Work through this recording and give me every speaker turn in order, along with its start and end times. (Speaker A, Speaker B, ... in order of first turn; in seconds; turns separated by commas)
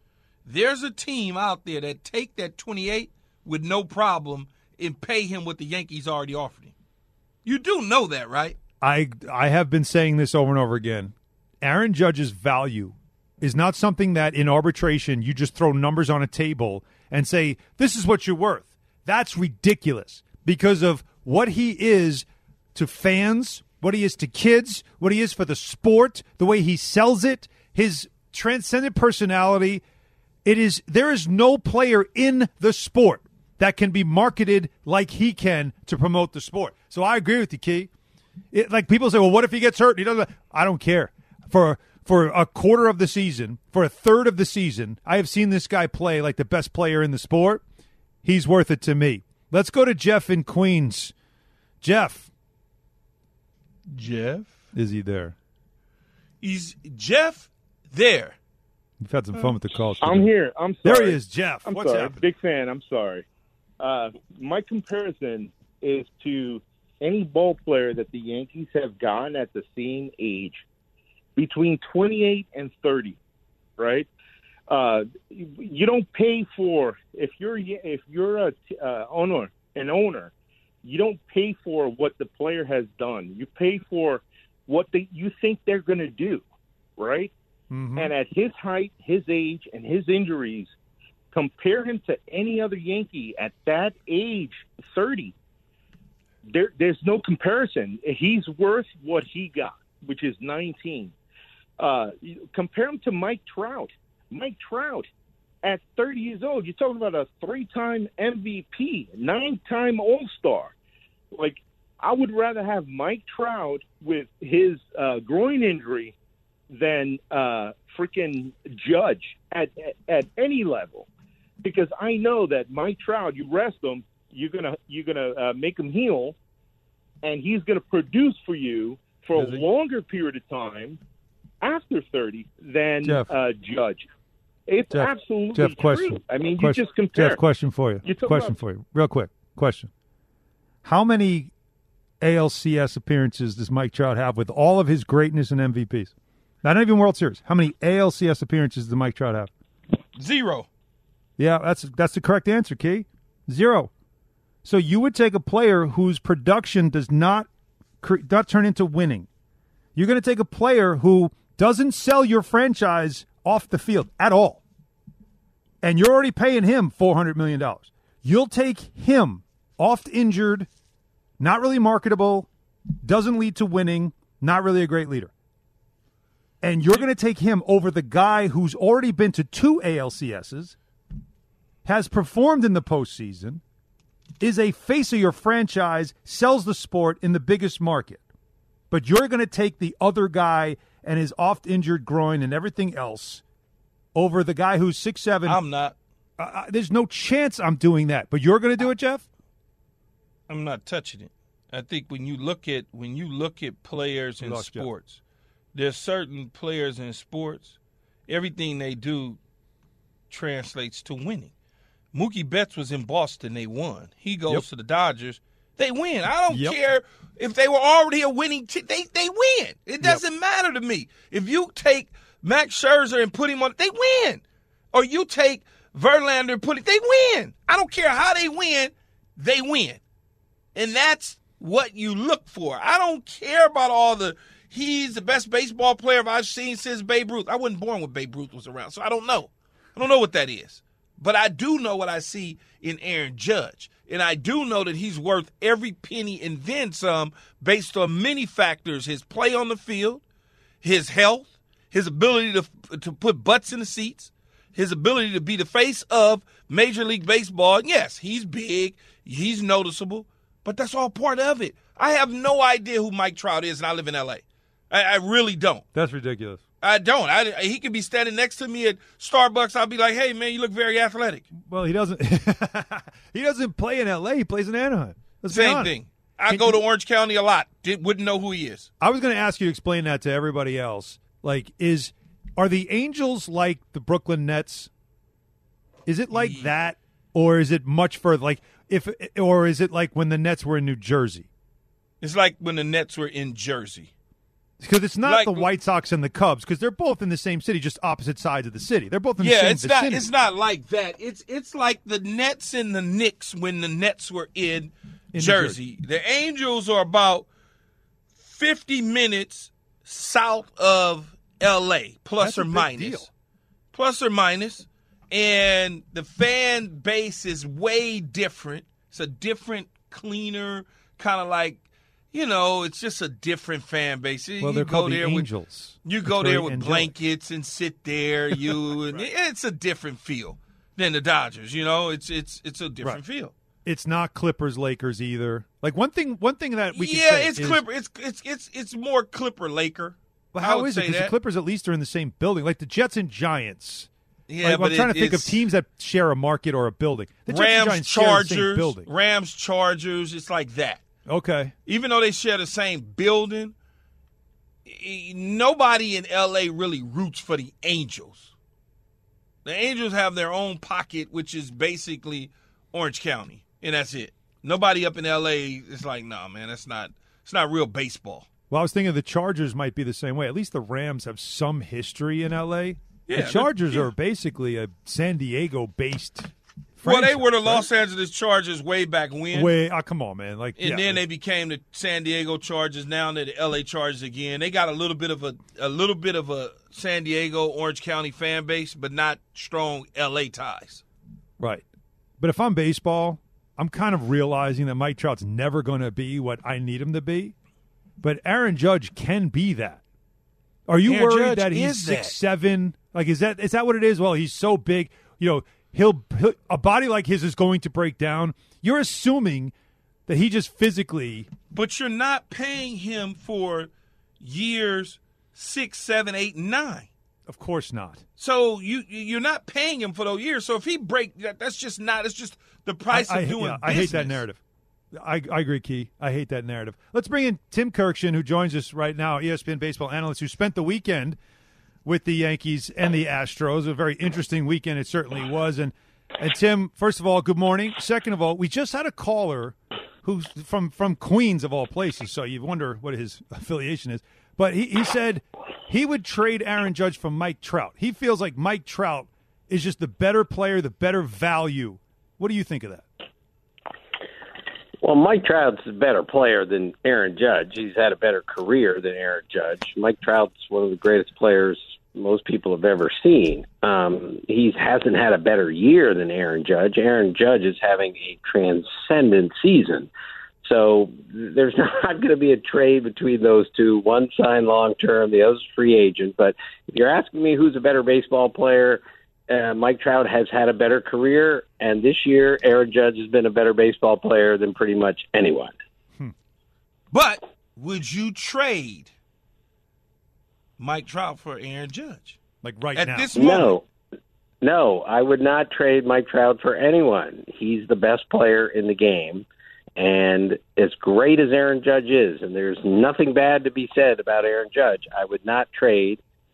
Speaker A: 0.5-6.7, Speaker A: 7.4-8.6, Speaker B: 8.8-29.8, Speaker B: 30.4-37.9, Speaker B: 38.5-47.6, Speaker B: 48.2-51.1, Speaker B: 51.8-52.3, Speaker A: 53.9-54.6, Speaker B: 54.7-55.4, Speaker A: 56.4-58.4, Speaker B: 59.0-60.3, Speaker C: 59.5-63.2, Speaker B: 60.8-62.2, Speaker C: 63.8-70.6, Speaker C: 71.4-73.2, Speaker C: 73.8-74.1, Speaker C: 74.7-80.3, Speaker C: 80.8-86.5, Speaker C: 87.0-87.3, Speaker B: 87.7-88.1, Speaker C: 88.0-90.7, Speaker C: 91.3-95.3, Speaker C: 96.5-101.2, Speaker C: 101.8-105.1, Speaker C: 105.6-110.7, Speaker C: 111.3-116.2, Speaker C: 116.7-121.1, Speaker C: 121.6-126.4, Speaker C: 127.2-131.0, Speaker B: 129.4-129.7, Speaker C: 131.6-134.1, Speaker B: 133.0-133.3, Speaker C: 134.7-137.4, Speaker B: 134.9-139.9, Speaker C: 138.0-138.6, Speaker B: 140.8-141.5, Speaker B: 142.2-149.5, Speaker A: 150.2-150.7, Speaker B: 151.4-153.9, Speaker B: 154.7-157.5, Speaker B: 158.0-159.3, Speaker B: 159.9-164.6, Speaker B: 165.8-170.7, Speaker B: 171.4-172.5, Speaker B: 173.0-175.3, Speaker B: 176.6-180.8, Speaker B: 181.8-183.6, Speaker B: 184.4-188.2, Speaker B: 188.9-193.4, Speaker B: 194.2-195.6, Speaker A: 195.5-195.9, Speaker B: 196.4-199.2, Speaker A: 200.5-205.2, Speaker B: 204.4-204.9, Speaker A: 205.7-207.8, Speaker A: 208.3-209.4, Speaker A: 210.3-211.5, Speaker A: 212.1-230.0, Speaker B: 216.5-216.8, Speaker A: 230.8-250.2, Speaker A: 250.8-265.9, Speaker B: 265.9-266.6, Speaker A: 266.8-271.4, Speaker B: 271.6-275.9, Speaker A: 275.5-278.9, Speaker B: 276.5-276.8, Speaker B: 279.0-284.9, Speaker B: 286.1-291.5, Speaker A: 286.3-286.7, Speaker A: 292.2-294.1, Speaker B: 294.8-300.3, Speaker A: 295.2-295.7, Speaker A: 299.4-307.5, Speaker B: 305.3-305.8, Speaker A: 308.4-313.3, Speaker B: 312.4-313.3, Speaker A: 313.9-325.5, Speaker B: 324.6-327.1, Speaker A: 326.1-333.5, Speaker B: 328.9-329.2, Speaker B: 333.9-337.8, Speaker A: 336.9-341.3, Speaker B: 340.5-344.1, Speaker A: 344.5-345.6, Speaker B: 344.6-349.1, Speaker A: 347.5-351.0, Speaker B: 351.3-351.7, Speaker A: 351.9-353.8, Speaker A: 354.9-358.5, Speaker A: 359.6-368.5, Speaker B: 368.7-377.9, Speaker A: 373.3-374.1, Speaker A: 377.0-379.7, Speaker B: 379.5-381.2, Speaker A: 380.8-391.0, Speaker B: 392.4-397.6, Speaker B: 398.2-400.0, Speaker B: 400.9-409.7, Speaker A: 401.1-402.4, Speaker B: 410.3-411.5, Speaker A: 411.7-417.1, Speaker B: 417.5-418.2, Speaker A: 418.4-424.4, Speaker B: 423.1-424.6, Speaker B: 425.1-431.4, Speaker B: 432.1-453.1, Speaker D: 455.0-470.1, Speaker D: 470.6-485.7, Speaker A: 487.1-489.1, Speaker A: 490.8-492.4, Speaker B: 492.6-493.3, Speaker A: 492.9-493.8, Speaker D: 493.4-493.8, Speaker D: 494.6-499.4, Speaker D: 500.0-506.2